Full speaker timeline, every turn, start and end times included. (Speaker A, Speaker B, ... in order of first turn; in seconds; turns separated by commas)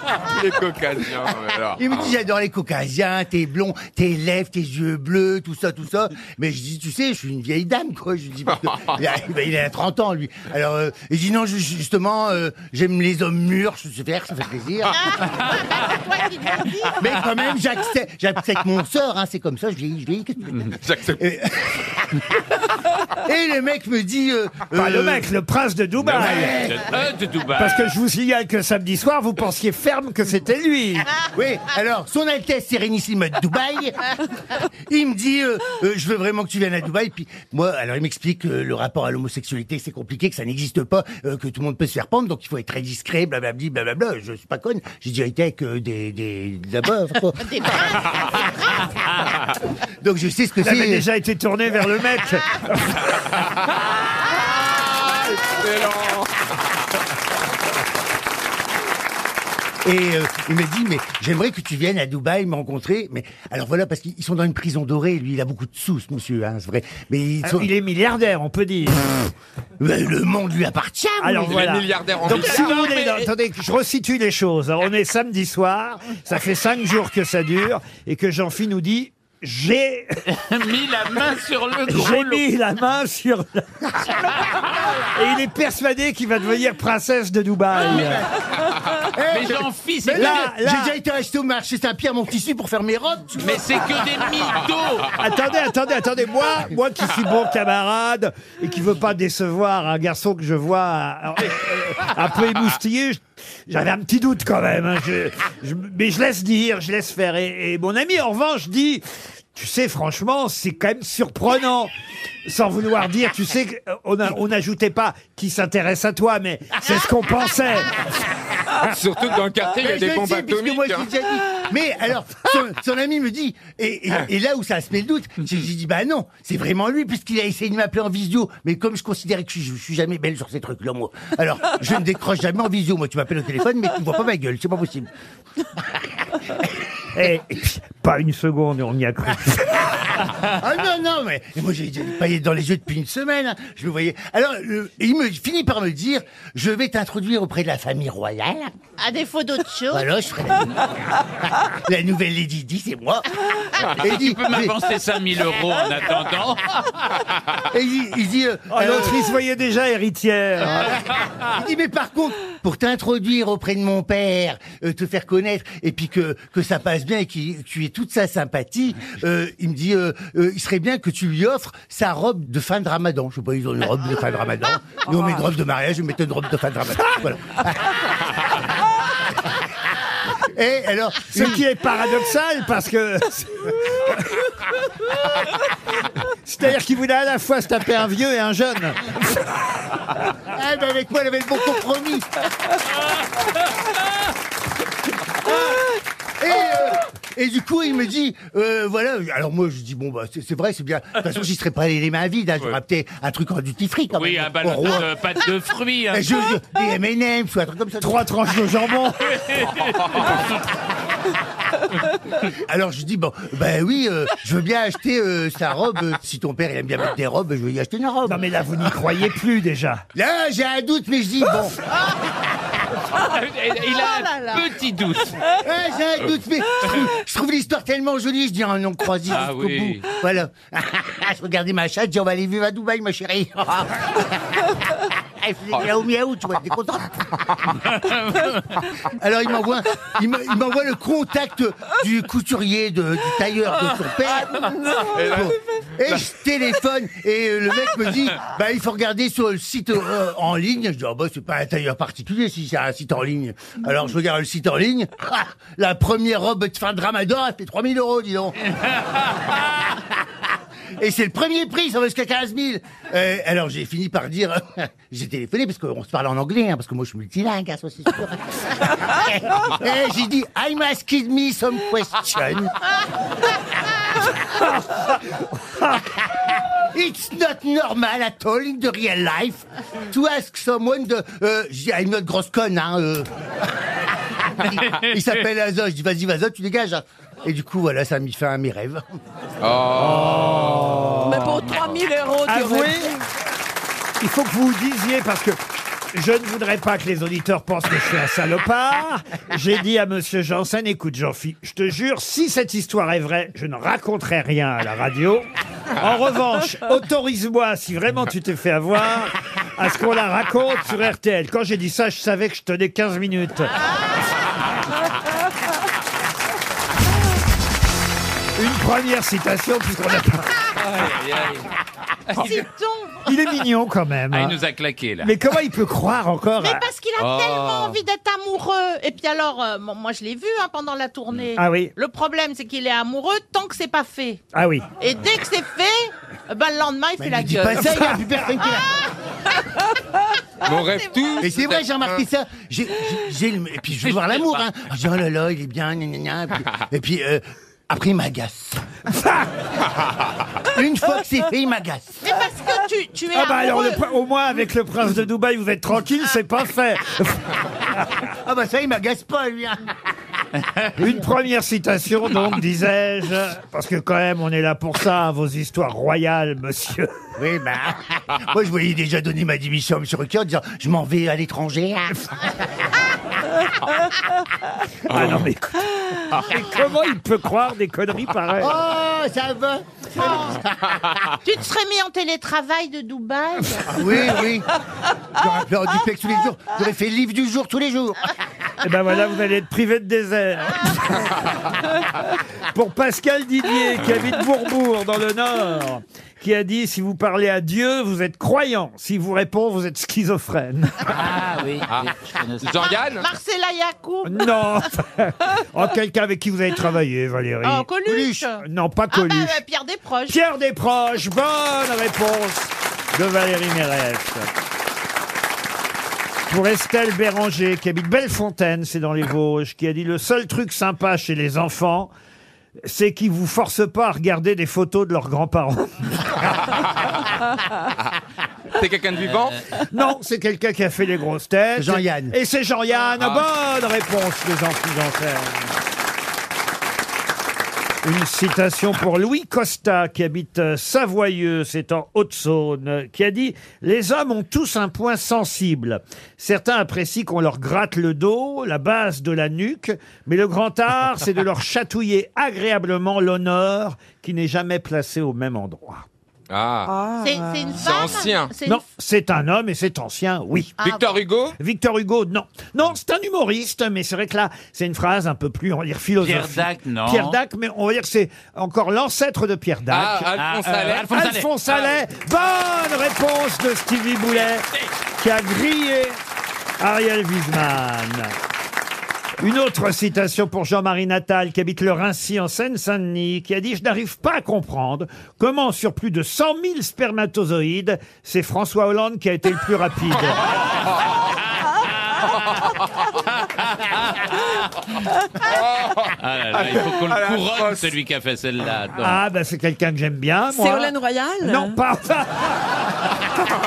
Speaker A: 0.3-1.9, Speaker B: 1.8-14.9, Speaker C: 14.9-17.0, Speaker B: 17.0-22.1, Speaker A: 20.8-21.2, Speaker B: 23.2-25.3, Speaker D: 24.7-26.7, Speaker E: 26.0-27.8, Speaker B: 26.1-26.9, Speaker D: 27.6-31.1, Speaker B: 31.3-34.0, Speaker B: 34.9-47.5, Speaker C: 47.4-48.7, Speaker B: 50.0-51.1, Speaker D: 50.6-52.8, Speaker A: 55.1-56.3, Speaker B: 59.8-67.7, Speaker D: 67.4-69.1, Speaker B: 69.8-71.6, Speaker D: 71.2-80.2, Speaker A: 71.4-73.3, Speaker E: 80.3-82.4, Speaker D: 81.9-83.7, Speaker D: 85.1-88.2, Speaker B: 87.9-88.3, Speaker B: 89.1-94.1, Speaker E: 89.3-90.5, Speaker D: 90.1-91.0, Speaker E: 93.4-95.1, Speaker D: 95.2-109.0, Speaker D: 109.5-111.9, Speaker D: 112.5-117.9, Speaker A: 118.8-121.1, Speaker B: 119.8-135.1, Speaker D: 137.1-139.9, Speaker B: 140.4-148.7, Speaker C: 149.0-150.1, Speaker B: 149.9-150.7, Speaker B: 151.8-153.2, Speaker B: 154.0-154.8, Speaker E: 154.0-156.6, Speaker B: 157.7-159.2, Speaker D: 158.7-161.0, Speaker B: 161.5-178.1, Speaker B: 180.5-181.6, Speaker D: 181.3-184.2, Speaker D: 186.4-189.4, Speaker B: 190.5-192.3, Speaker B: 196.4-205.2, Speaker E: 204.2-206.3, Speaker B: 206.1-208.3, Speaker D: 208.0-209.2, Speaker E: 210.2-210.5, Speaker B: 212.7-218.4, Speaker D: 218.3-220.0, Speaker B: 220.1-221.8, Speaker E: 223.2-225.4, Speaker C: 223.8-224.7, Speaker B: 225.6-234.6, Speaker E: 229.3-230.0, Speaker B: 235.4-237.5, Speaker B: 239.1-258.6, Speaker F: 244.5-245.1, Speaker A: 245.0-245.6, Speaker B: 261.0-272.8, Speaker B: 276.3-283.7, Speaker B: 284.6-289.1, Speaker A: 289.6-290.9, Speaker D: 290.0-291.7, Speaker F: 291.2-293.1, Speaker E: 291.5-292.1, Speaker D: 292.5-293.2, Speaker D: 294.2-295.6, Speaker D: 296.1-305.5, Speaker D: 306.0-313.7, Speaker D: 318.6-320.5, Speaker C: 322.4-323.3, Speaker D: 323.3-324.6, Speaker E: 324.3-325.3, Speaker D: 325.2-326.8, Speaker C: 326.6-334.4, Speaker A: 327.2-327.9, Speaker D: 331.6-331.9, Speaker D: 334.5-334.9, Speaker C: 335.0-339.1, Speaker B: 337.2-339.0, Speaker A: 340.6-342.2, Speaker C: 340.6-341.5, Speaker B: 341.4-348.9, Speaker E: 344.1-344.6, Speaker D: 349.2-349.5, Speaker B: 350.7-352.2, Speaker C: 352.2-354.0, Speaker D: 353.3-357.5, Speaker B: 358.2-359.8, Speaker B: 361.0-361.3, Speaker D: 361.0-367.2, Speaker B: 367.4-372.6, Speaker D: 375.1-378.8, Speaker A: 375.1-375.4, Speaker B: 378.6-381.0, Speaker C: 381.4-384.1, Speaker B: 383.9-384.7, Speaker B: 385.4-388.2, Speaker D: 388.8-391.5, Speaker D: 392.7-401.1, Speaker E: 401.1-402.9, Speaker A: 401.9-403.2, Speaker C: 402.8-404.5, Speaker D: 404.2-407.9, Speaker C: 407.6-410.4, Speaker B: 408.1-408.4, Speaker D: 408.6-409.6, Speaker D: 410.3-414.5, Speaker D: 416.5-422.1, Speaker D: 422.8-426.1, Speaker A: 428.8-429.6, Speaker D: 429.9-435.8, Speaker B: 431.8-432.4, Speaker D: 438.0-456.1, Speaker A: 456.5-456.9, Speaker F: 456.9-457.7, Speaker C: 457.2-458.8, Speaker A: 457.7-458.5, Speaker D: 458.6-460.8, Speaker C: 460.8-461.1, Speaker A: 460.8-461.6, Speaker D: 461.6-474.7, Speaker E: 466.2-467.4, Speaker A: 469.9-471.1, Speaker E: 470.4-471.5, Speaker D: 475.2-476.2, Speaker D: 476.8-478.4, Speaker D: 479.4-490.4, Speaker E: 496.2-499.2, Speaker A: 496.6-497.9, Speaker D: 499.0-502.6, Speaker F: 500.5-501.8